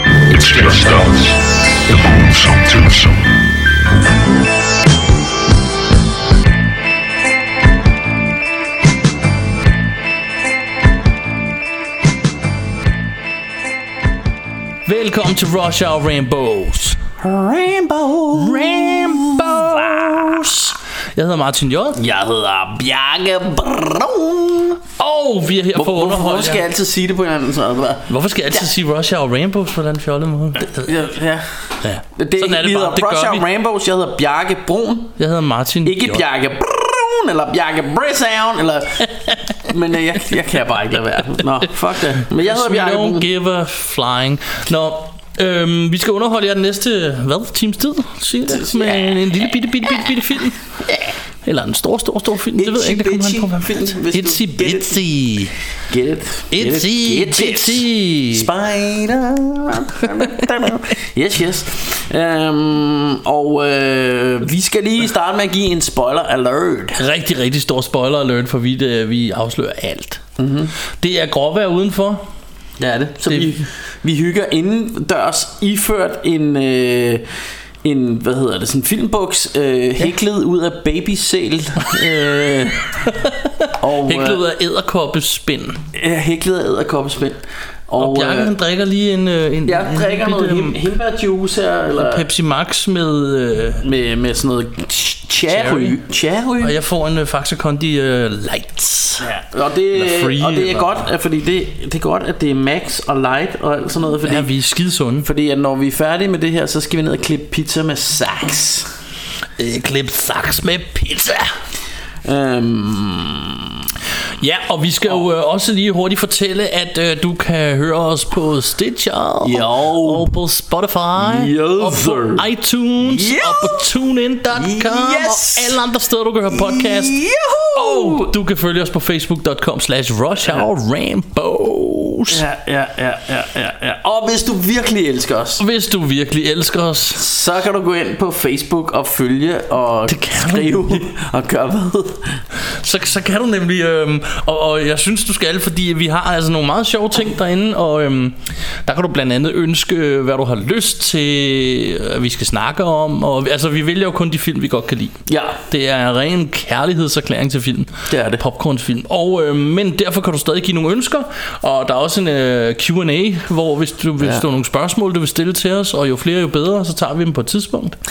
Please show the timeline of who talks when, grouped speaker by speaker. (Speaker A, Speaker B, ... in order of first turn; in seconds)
Speaker A: 0.3-1.4, 1.9-3.1
Speaker B: 14.8-17.0, 18.3-22.0, 25.0-26.6, 28.1-31.0, 31.8-33.4, 35.2-36.2, 42.2-50.6, 51.4-55.5, 56.5-58.5, 60.1-60.4, 66.9-70.2, 71.0-72.2, 73.3-73.5, 83.0-85.8, 88.0-90.8, 92.0-93.8, 95.5-96.0, 96.6-99.3, 99.9-101.0, 104.2-105.2, 109.6-111.5, 114.4-127.2, 127.7-132.4, 135.6-137.2, 140.1-141.1, 142.7-168.0
Speaker C: 17.2-20.5, 21.9-24.9, 25.7-28.7, 30.6-35.1, 35.8-43.3, 48.5-50.3, 52.5-55.0, 55.9-67.0, 70.4-70.7, 72.8-77.2, 77.8-82.9, 83.8-84.4, 85.9-88.5, 89.7-92.2, 93.8-96.8, 99.2-104.5, 105.2-108.9, 112.2-113.9, 119.4-120.3, 121.2-122.4, 123.0-123.9, 124.5-125.8, 126.5-128.3, 132.3-135.6, 137.1-142.4, 155.3-155.6, 158.1-158.4